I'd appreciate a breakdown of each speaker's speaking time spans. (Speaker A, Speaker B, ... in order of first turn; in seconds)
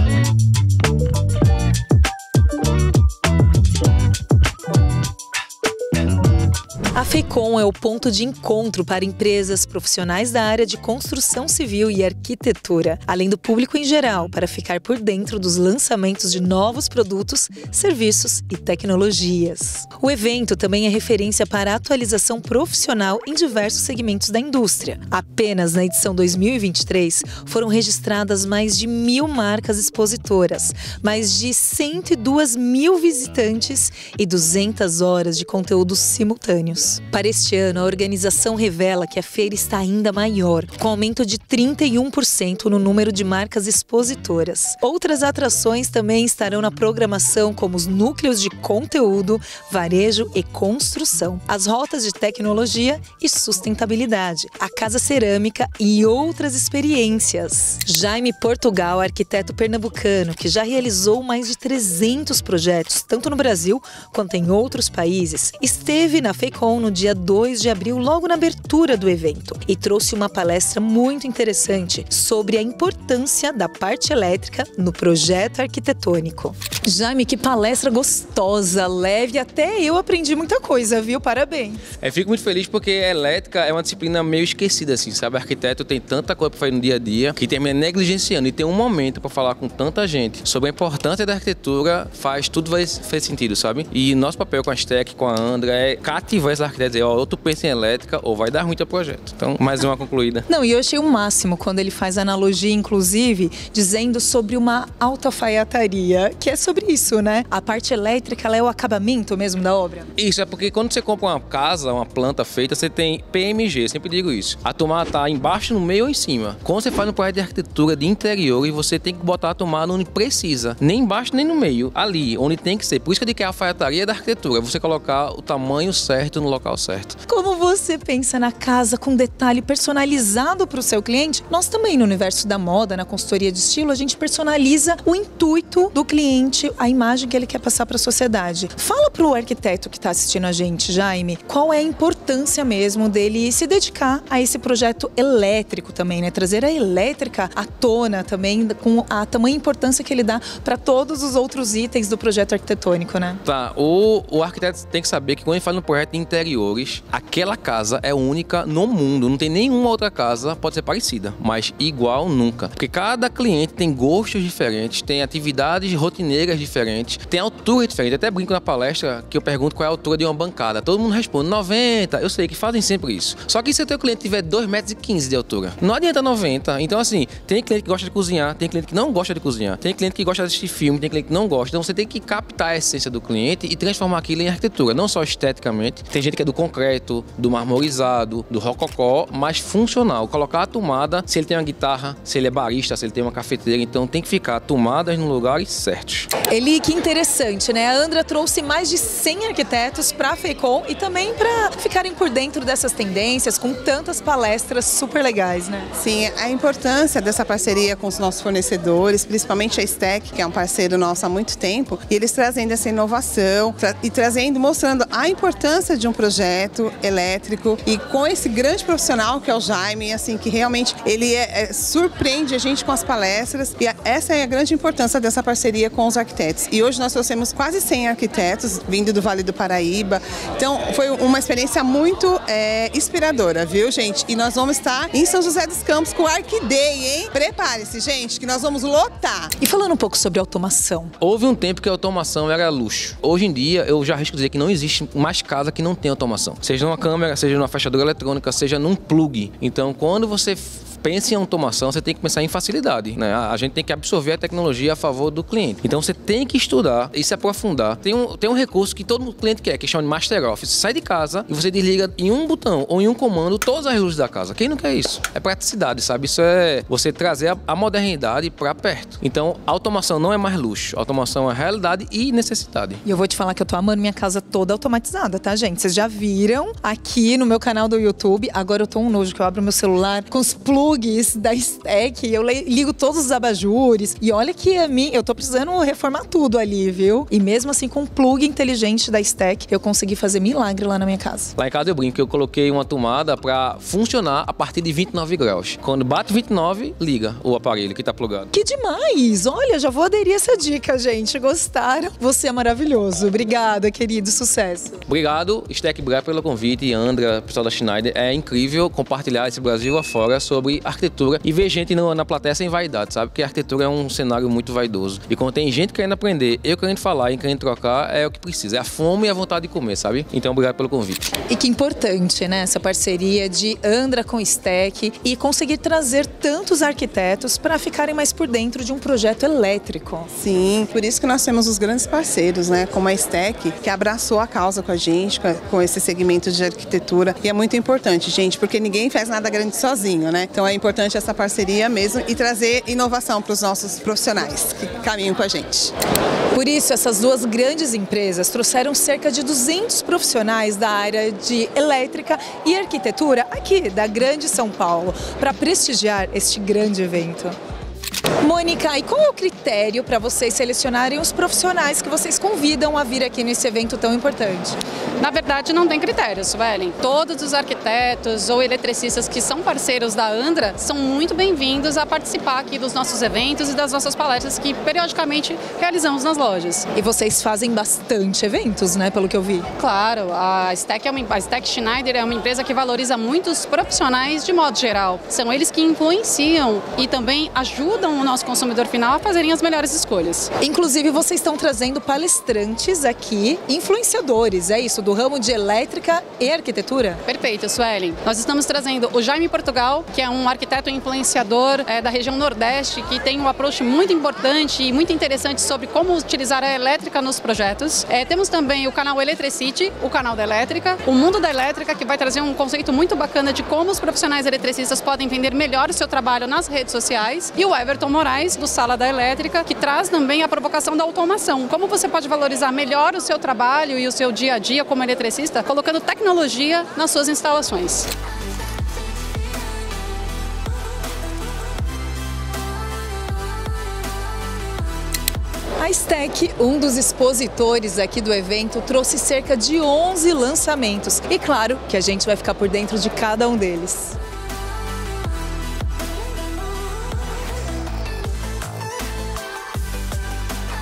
Speaker A: 6.9-81.8, 100.5-110.1, 127.2-153.4, 196.5-205.9, 239.6-241.1, 273.0-291.5, 298.5-305.0, 321.5-330.3, 346.5-357.6, 358.4-364.8, 376.9-379.7, 390.6-397.2, 435.8-444.1
Speaker B: 82.0-100.4, 110.2-127.2, 153.4-196.3, 241.2-273.0, 291.6-298.5, 305.1-321.3
Speaker C: 205.9-239.5, 330.4-345.9
Speaker D: 365.2-376.9, 379.8-390.5, 397.2-428.1